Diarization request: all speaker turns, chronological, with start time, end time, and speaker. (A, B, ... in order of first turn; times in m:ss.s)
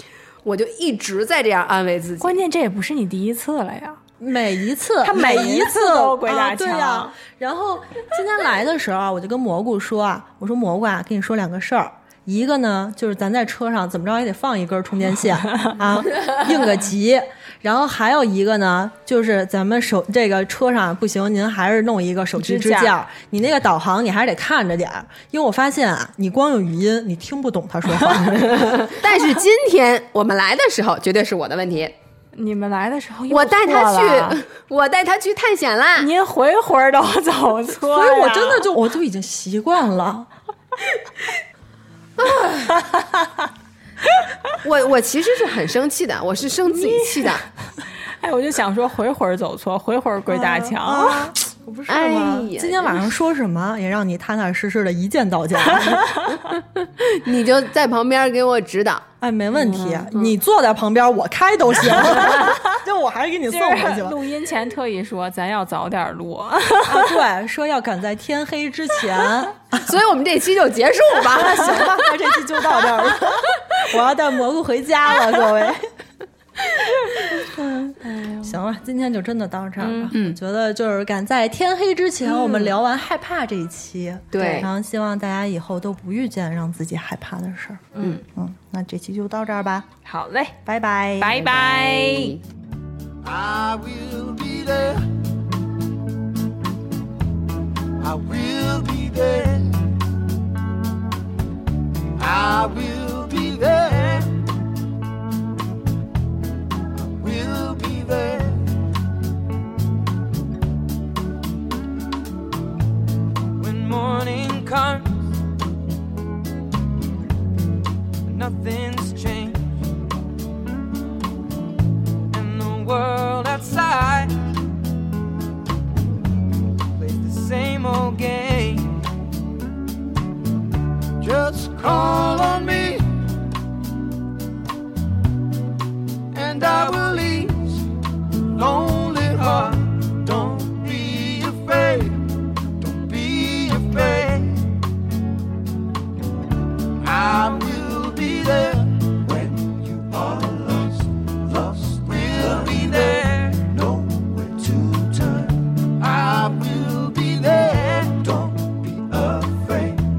0:00.4-0:02.4 A
0:02.2-0:04.0 B
0:04.2-0:28.8 C
0:05.0-0:07.1 B
0:22.4-0:22.9 B
0:28.4-0:32.0 A
0:32.3-0:34.4 B
0:33.3-0:36.1 A
0:36.0-0:38.7 B
0:37.8-0:40.3 C
0:42.2-0:42.8 A
0:44.6-0:47.4 A
0:46.7-0:47.3 B
0:48.2-0:51.3 B
0:50.3-0:56.1 C
0:51.9-0:53.0 A
0:56.6-1:00.3 A
0:59.2-1:04.2 C
1:02.0-1:02.5 A
1:03.5-1:07.1 B
1:06.8-1:09.9 C
1:09.8-1:12.2 A
1:11.3-1:15.9 C
1:17.3-1:29.9 C
1:19.8-1:20.1 B
1:20.1-1:20.4 A
1:22.2-1:22.7 A
1:24.3-1:24.7 A
1:30.0-1:30.6 B
1:30.6-1:31.4 C
1:31.2-1:32.4 B
1:31.3-1:32.4 A
1:33.2-1:35.0 D
1:38.0-1:39.8 D
1:42.2-1:44.3 D
1:47.2-1:48.7 D
1:53.6-1:55.2 D
1:58.3-1:59.8 D
2:02.3-2:04.4 D
2:07.0-2:09.0 D
2:11.2-2:13.1 D
2:16.3-2:17.9 D
2:18.5-2:22.3 D
2:22.8-2:24.6 D
2:27.0-2:40.0 D